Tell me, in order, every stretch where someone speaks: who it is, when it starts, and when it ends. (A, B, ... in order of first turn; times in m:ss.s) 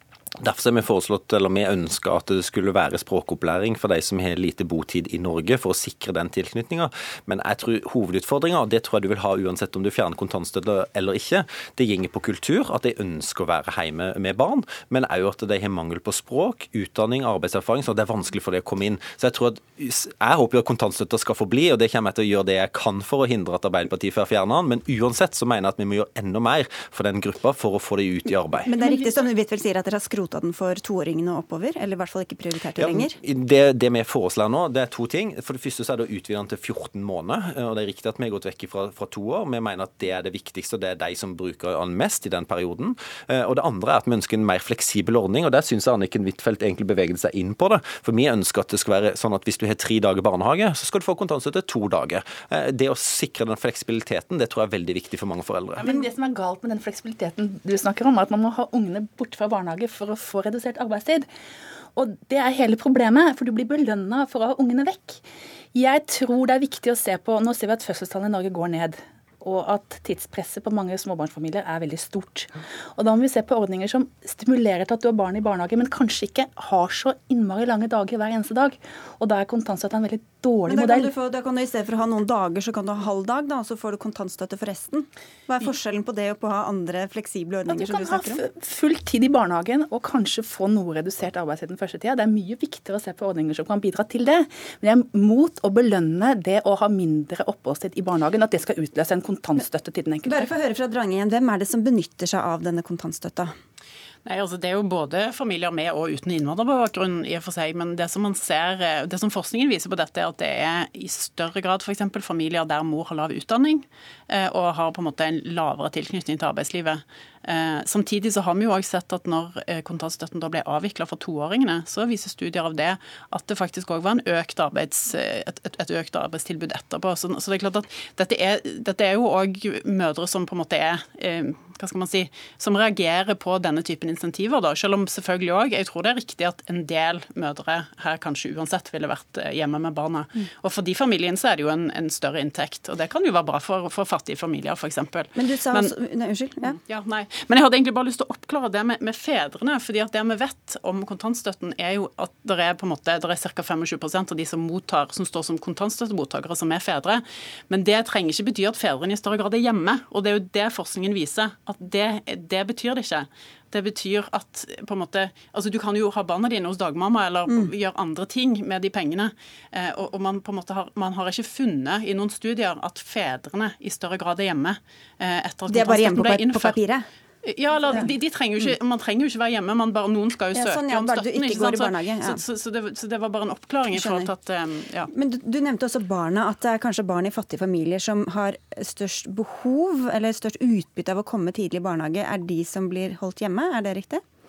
0:00.4-0:28.7 A
0:28.6-0:33.2 B
0:32.8-0:55.9 A
0:55.8-1:01.3 C
1:01.9-1:21.1 C
1:20.7-1:28.4 B
1:27.7-1:40.5 C
1:40.2-1:43.5 B
1:44.2-2:25.9 D
2:25.4-2:26.8 B
2:26.7-2:56.8 D
2:55.7-2:57.1 B
2:57.4-3:05.1 D
3:00.5-3:02.4 B
3:03.9-3:04.3 B
3:05.1-3:14.2 B